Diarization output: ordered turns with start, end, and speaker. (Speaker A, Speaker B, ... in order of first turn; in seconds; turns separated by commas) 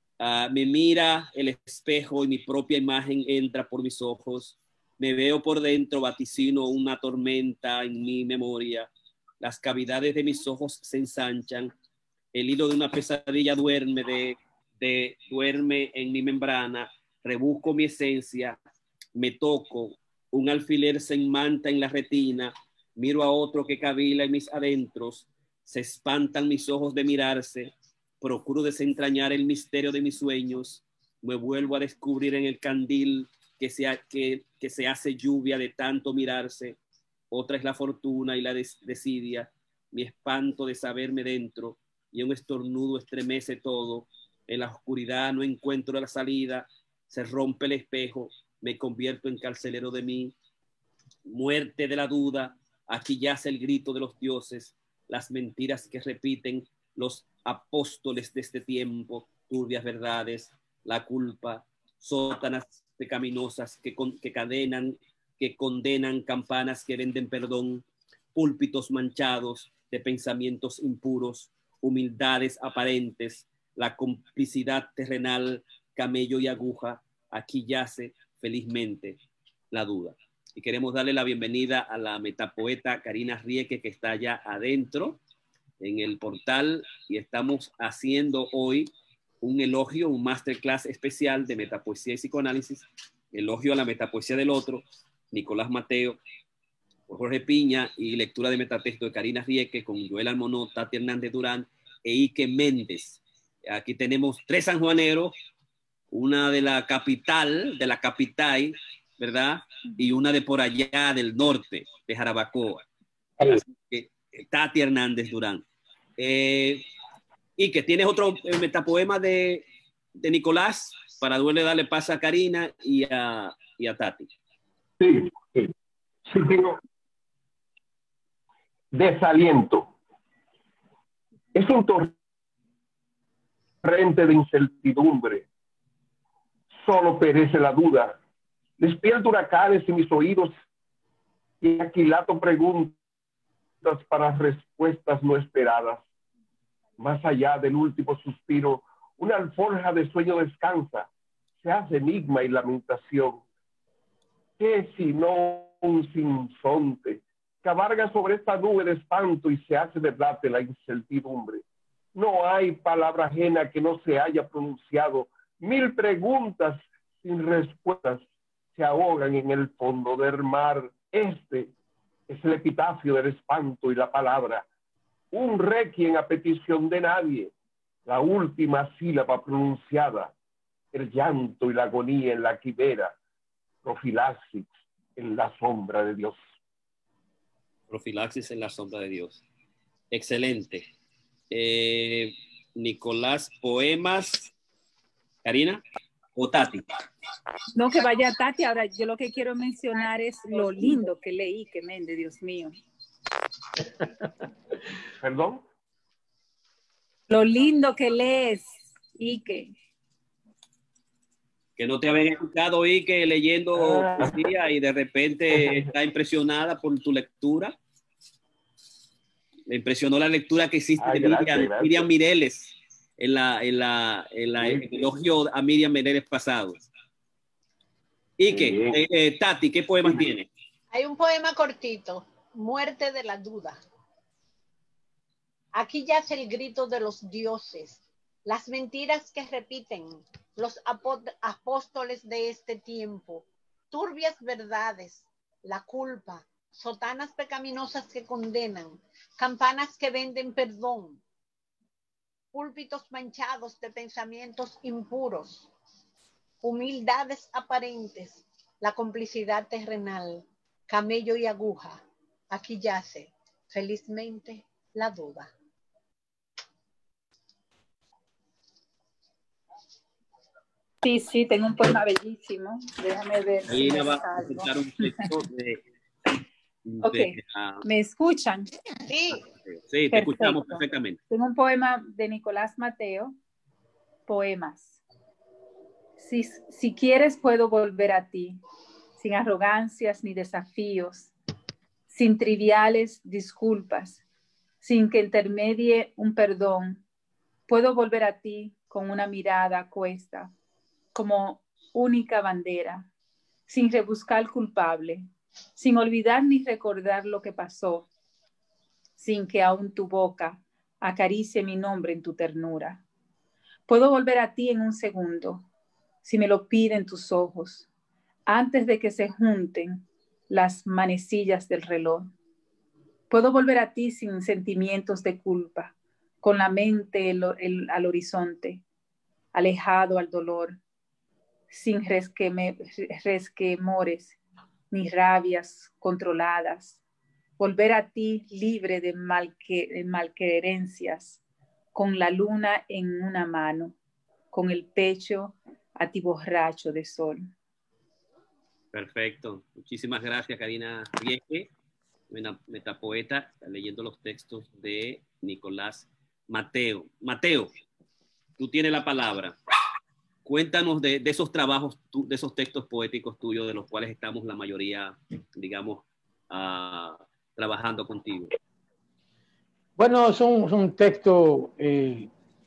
Speaker A: 0.2-8.9, Speaker A: 9.4-11.7, Speaker A: 12.3-18.6, Speaker A: 19.2-36.8, Speaker A: 37.3-50.4, Speaker A: 51.3-79.2, Speaker A: 79.7-85.2, Speaker A: 85.8-88.9, Speaker A: 89.4-96.2, Speaker A: 97.1-105.3, Speaker A: 106.1-112.9, Speaker A: 113.5-115.7, Speaker A: 116.2-116.8, Speaker A: 117.6-119.7, Speaker A: 120.2-124.3, Speaker B: 125.0-125.7, Speaker B: 126.3-126.8, Speaker B: 128.9-129.9, Speaker B: 131.6-132.1, Speaker B: 133.8-135.5, Speaker B: 136.8-138.2, Speaker B: 138.8-140.5, Speaker B: 141.6-143.0, Speaker B: 143.8-146.0, Speaker B: 147.0-151.1, Speaker B: 151.6-153.4, Speaker B: 154.6-161.6, Speaker B: 162.2-168.2, Speaker B: 168.8-171.7, Speaker B: 172.3-174.7, Speaker B: 175.3-177.5, Speaker B: 178.1-180.3, Speaker B: 180.9-183.2, Speaker B: 183.8-186.3, Speaker A: 187.9-189.4, Speaker A: 190.1-190.9, Speaker A: 191.5-194.5, Speaker A: 195.4-195.8, Speaker A: 196.4-196.8, Speaker C: 197.8-202.8, Speaker B: 205.2-205.6, Speaker C: 207.3-209.7, Speaker A: 211.8-217.8, Speaker B: 213.8-214.4, Speaker A: 219.7-226.9, Speaker B: 221.0-222.1, Speaker B: 224.6-224.9, Speaker A: 228.4-230.5, Speaker B: 228.5-229.0, Speaker D: 230.9-233.8, Speaker D: 235.7-251.2, Speaker D: 252.5-255.7, Speaker D: 256.6-265.5, Speaker C: 271.0-275.1, Speaker A: 273.7-275.8, Speaker A: 276.9-277.9, Speaker C: 277.0-278.7, Speaker D: 279.1-279.4, Speaker A: 279.7-281.2, Speaker C: 280.1-283.4, Speaker C: 284.3-285.0, Speaker C: 286.2-288.6, Speaker C: 289.2-291.3, Speaker C: 292.1-294.2, Speaker C: 294.8-297.0, Speaker C: 297.7-300.5, Speaker C: 301.1-303.1, Speaker C: 303.7-308.1, Speaker C: 309.2-313.0, Speaker C: 313.9-315.7, Speaker C: 316.2-317.9, Speaker C: 318.5-322.3, Speaker C: 323.3-328.8, Speaker C: 329.5-330.8, Speaker C: 331.7-334.4, Speaker C: 334.9-337.0, Speaker C: 337.6-341.4, Speaker C: 341.9-344.0, Speaker C: 344.5-347.5, Speaker A: 348.9-351.7, Speaker A: 352.3-357.7, Speaker A: 358.6-359.6, Speaker A: 360.4-368.5, Speaker E: 370.0-372.3